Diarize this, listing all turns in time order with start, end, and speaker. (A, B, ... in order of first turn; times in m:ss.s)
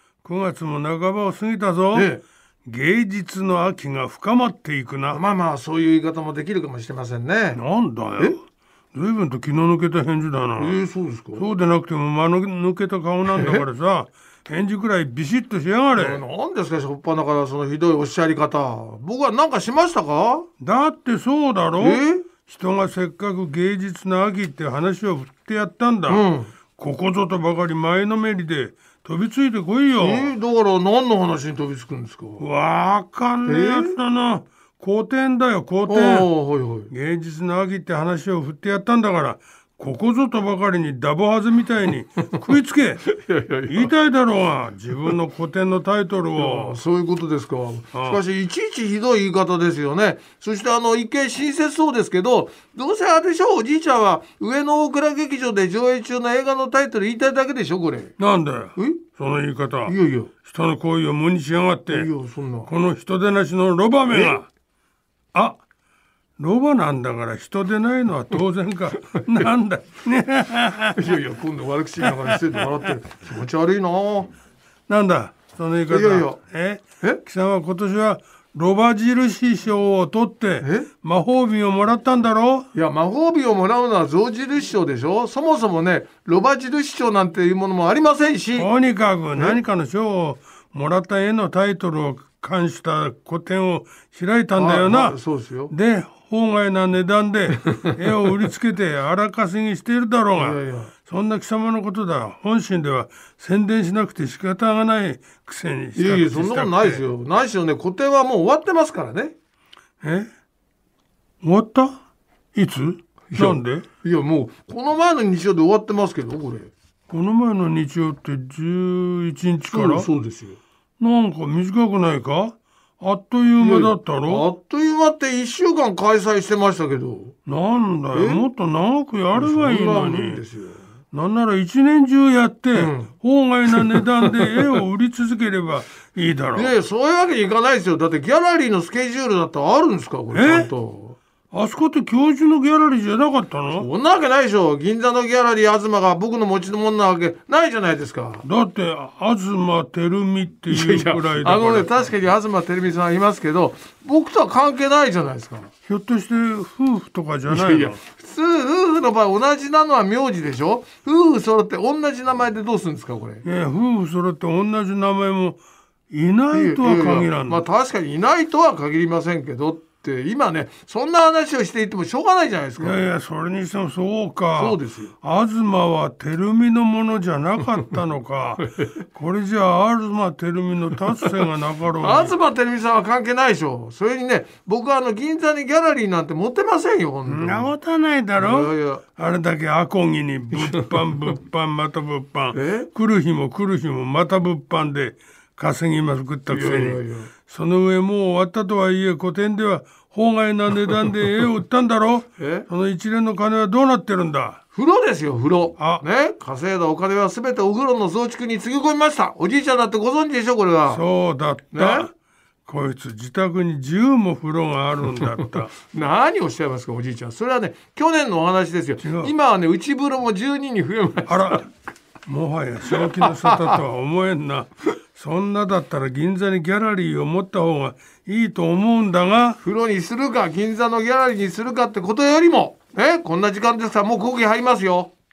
0:00.2-0:02.1 A
0:01.9-0:02.2 B
0:02.6-0:05.2 A
0:05.1-0:07.6 B
0:07.6-0:08.4 A
0:08.9-0:10.8 A
0:10.6-0:11.4 B
0:11.4-0:16.2 A
0:13.3-0:13.6 B
0:15.9-0:20.5 B
0:20.6-0:26.2 A
0:21.8-0:22.3 B
0:26.1-0:26.5 B
0:26.8-0:30.3 A
0:30.0-0:32.4 B
0:32.4-0:36.3 A
0:33.4-0:34.0 B
0:35.8-0:36.9 B
0:36.9-0:43.0 A
0:43.1-0:43.9 B
0:43.7-0:46.8 A
0:46.4-0:58.1 B
0:47.9-0:48.2 A
0:58.2-1:02.1 A
0:58.8-0:59.0 B
0:59.8-1:00.3 B
1:01.9-1:02.7 B
1:02.7-1:04.5 A
1:04.1-1:04.4 B
1:06.4-1:11.1 A
1:11.0-1:14.3 B
1:14.9-1:22.7 A
1:15.9-1:16.4 B
1:20.6-1:20.9 B
1:22.7-1:28.7 B
1:28.5-1:35.2 A
1:34.6-1:35.7 B
1:35.7-1:47.0 A
1:40.3-1:40.9 B
1:46.0-1:49.3 B
1:50.0-1:50.3 A
1:51.4-1:52.0 A
1:52.5-1:53.8 A
1:53.3-1:56.7 B
1:57.1-2:00.1 A
1:59.7-2:00.6 B
2:01.0-2:04.5 A
2:03.6-2:07.3 B
2:07.4-2:10.4 A
2:08.1-2:08.4 B
2:09.3-2:10.9 B
2:11.1-2:16.7 A
2:12.7-2:13.1 B
2:13.7-2:14.8 B
2:16.5-2:21.2 B
2:20.3-2:20.7 A
2:21.5-2:23.9 A
2:23.7-2:28.4 B
2:28.4-2:32.0 A
2:30.7-2:35.7 B
2:35.9-2:37.9 A
2:37.5-2:43.4 B
2:43.4-2:45.6 A
2:46.1-2:47.6 A
2:46.5-2:53.1 B
2:52.8-3:02.3 A
2:54.5-2:55.1 B
2:58.6-2:58.9 B
3:02.0-3:07.7 B
3:07.3-3:24.6 A
3:08.4-3:09.0 B
3:10.6-3:10.8 B
3:12.5-3:12.9 B
3:16.5-3:17.3 B
3:22.4-3:22.7 B
3:24.7-3:31.0 B
3:25.8-3:26.0 A
3:30.9-3:32.1 A
3:31.7-3:32.1 B
3:32.6-3:35.7 A
3:35.7-3:41.6 B
3:39.0-3:39.3 A
3:41.3-3:41.6 A
3:42.3-3:49.6 A
3:42.9-3:43.8 B
3:49.6-3:55.1 B